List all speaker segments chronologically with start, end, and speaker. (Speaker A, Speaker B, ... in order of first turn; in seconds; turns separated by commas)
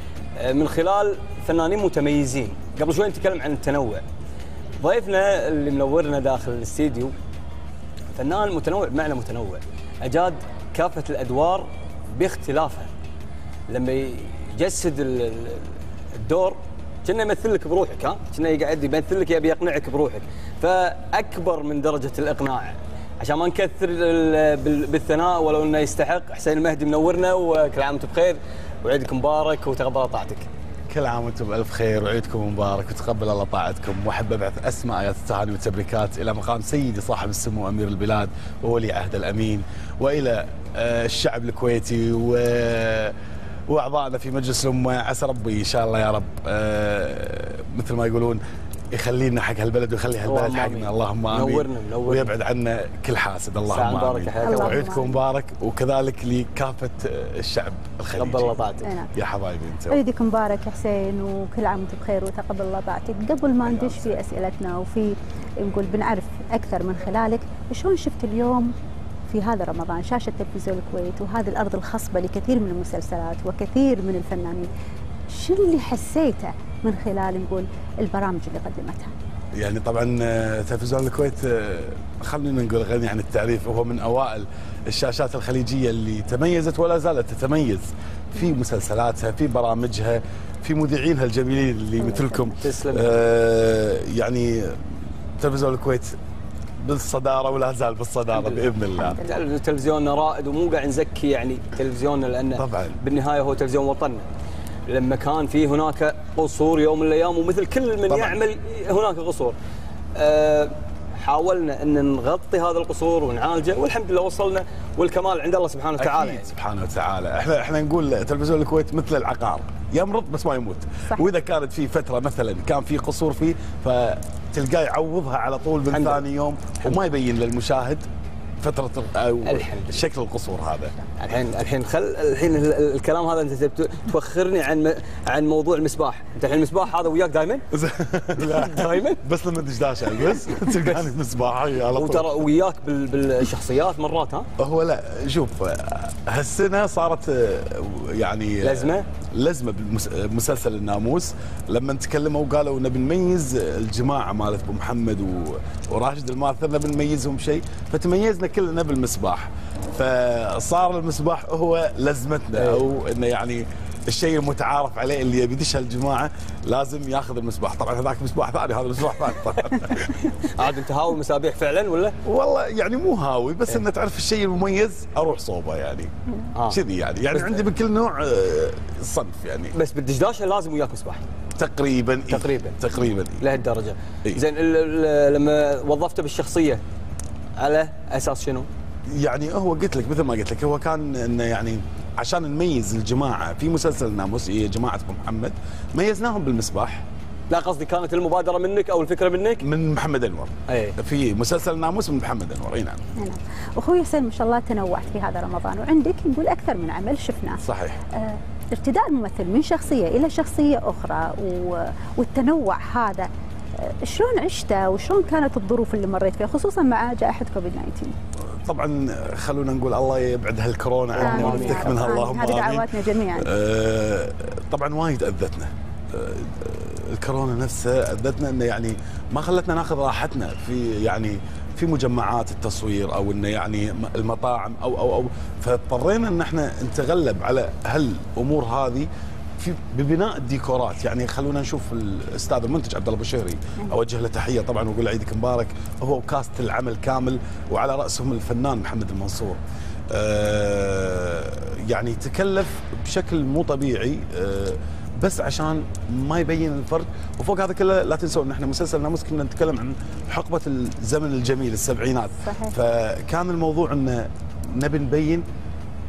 Speaker A: 0.4-4.0, Speaker A: 4.8-7.1, Speaker A: 8.1-12.9, Speaker A: 13.7-30.5, Speaker B: 30.9-43.1, Speaker B: 43.7-48.4, Speaker B: 48.9-58.5, Speaker A: 50.3-52.3, Speaker A: 53.7-54.9, Speaker C: 54.4-55.2, Speaker A: 58.1-58.9, Speaker C: 58.8-59.1, Speaker B: 59.1-60.0, Speaker C: 59.9-68.7, Speaker B: 63.7-64.1, Speaker C: 69.3-74.7, Speaker C: 75.3-79.1, Speaker B: 79.5-96.1, Speaker C: 92.1-92.5, Speaker A: 92.6-93.2, Speaker B: 96.8-99.2, Speaker A: 98.4-98.6, Speaker C: 99.0-99.4, Speaker A: 99.2-104.2, Speaker B: 102.5-103.0, Speaker A: 104.9-109.5, Speaker B: 108.1-108.4, Speaker A: 110.1-116.4, Speaker B: 116.0-128.0, Speaker A: 125.9-126.2, Speaker B: 128.6-131.0, Speaker A: 129.4-130.0, Speaker A: 131.2-137.6, Speaker B: 137.7-142.3, Speaker A: 138.3-139.2, Speaker A: 140.5-141.0, Speaker A: 141.9-144.5, Speaker B: 144.6-170.4, Speaker A: 148.6-149.1, Speaker A: 162.6-162.8, Speaker A: 170.4-172.2, Speaker B: 172.2-176.1, Speaker A: 176.5-176.8, Speaker B: 176.7-179.7, Speaker A: 177.3-177.7, Speaker A: 179.7-181.2, Speaker B: 181.6-183.4, Speaker A: 182.3-182.8, Speaker A: 183.4-186.8, Speaker A: 187.6-188.7, Speaker B: 189.1-197.1, Speaker A: 197.5-199.7, Speaker B: 199.6-203.0, Speaker A: 200.7-200.9, Speaker C: 203.2-207.6, Speaker B: 207.6-208.0, Speaker C: 208.1-218.1, Speaker B: 218.6-265.4, Speaker A: 221.1-222.1, Speaker C: 221.2-223.5, Speaker C: 262.4-262.7